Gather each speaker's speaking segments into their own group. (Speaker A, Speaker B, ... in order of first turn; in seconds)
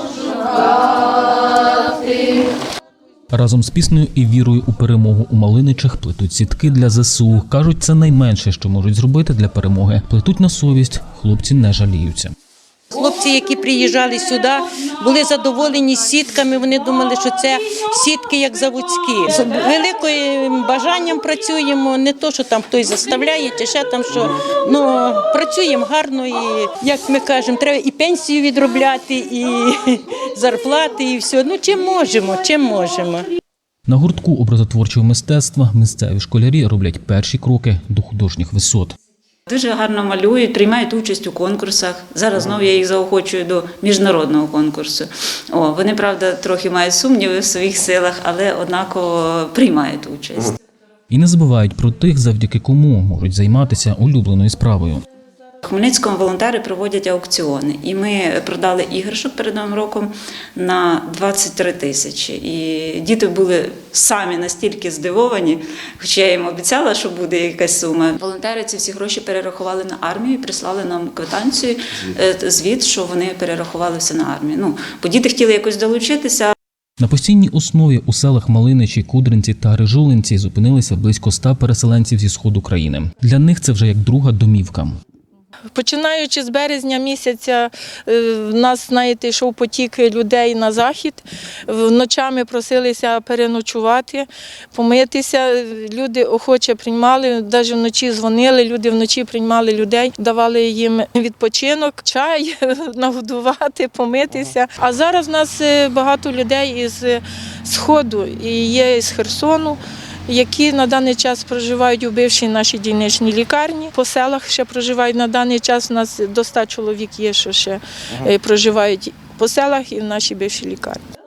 Speaker A: 0.4-0.9, 12.9-33.3
Speaker B: 3.3-12.3, 33.9-39.0, 51.1-55.0, 77.0-85.0
Speaker C: 39.5-50.6, 55.6-76.5
Speaker D: 85.8-121.0